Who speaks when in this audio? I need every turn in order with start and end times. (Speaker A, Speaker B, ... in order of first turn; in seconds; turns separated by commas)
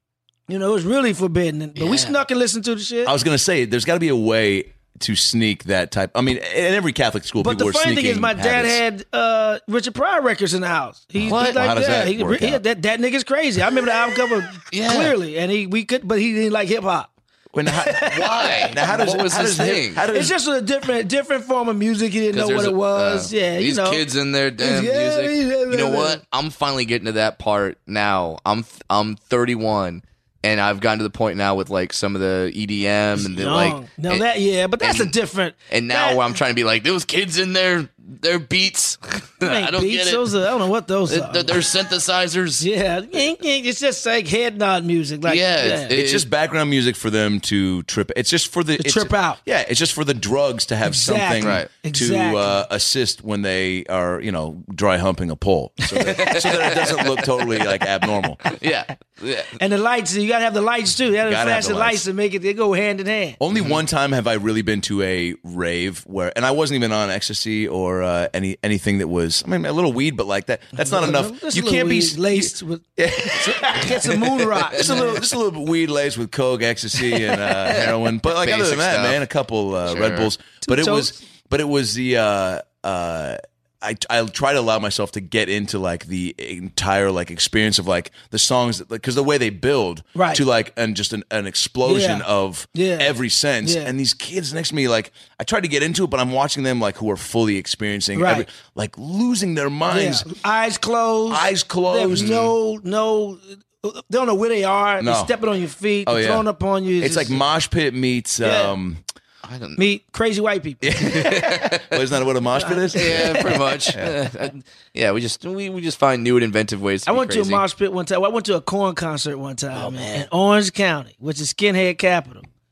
Speaker A: 0.5-3.1, Speaker B: 1.8-2.1, Speaker C: 3.0-8.8, Speaker A: 7.4-17.1, Speaker C: 11.3-12.6, Speaker B: 11.3-11.6, Speaker B: 14.7-15.1, Speaker C: 17.5-20.4, Speaker A: 17.8-19.0, Speaker B: 18.1-20.0, Speaker A: 20.1-24.0, Speaker B: 22.3-34.2, Speaker A: 24.6-26.2, Speaker A: 33.2-36.2, Speaker B: 34.8-35.1, Speaker B: 35.7-40.4, Speaker A: 39.4-41.6, Speaker B: 41.1-42.7, Speaker A: 42.6-45.9, Speaker B: 45.3-46.3, Speaker C: 45.9-58.5, Speaker A: 48.8-49.4, Speaker A: 50.9-52.6, Speaker B: 51.4-51.7, Speaker A: 56.0-56.4, Speaker B: 56.1-57.2, Speaker B: 58.5-59.6, Speaker A: 59.6-63.4, Speaker C: 61.3-62.0, Speaker C: 63.4-100.3, Speaker B: 63.5-63.8, Speaker A: 70.7-75.2, Speaker B: 78.4-79.2, Speaker B: 79.8-80.3, Speaker A: 80.6-81.1, Speaker A: 90.2-90.4, Speaker A: 91.8-93.9, Speaker A: 98.2-98.5, Speaker A: 99.9-107.4, Speaker C: 101.3-102.5, Speaker B: 102.2-102.5, Speaker C: 105.0-105.3, Speaker C: 106.0-106.5, Speaker C: 107.0-109.0, Speaker A: 108.4-108.8, Speaker B: 109.5-109.8, Speaker A: 109.8-110.9, Speaker C: 110.8-114.2, Speaker B: 111.0-112.0, Speaker A: 112.6-113.6, Speaker B: 112.9-117.6, Speaker A: 117.1-122.5, Speaker B: 119.8-120.2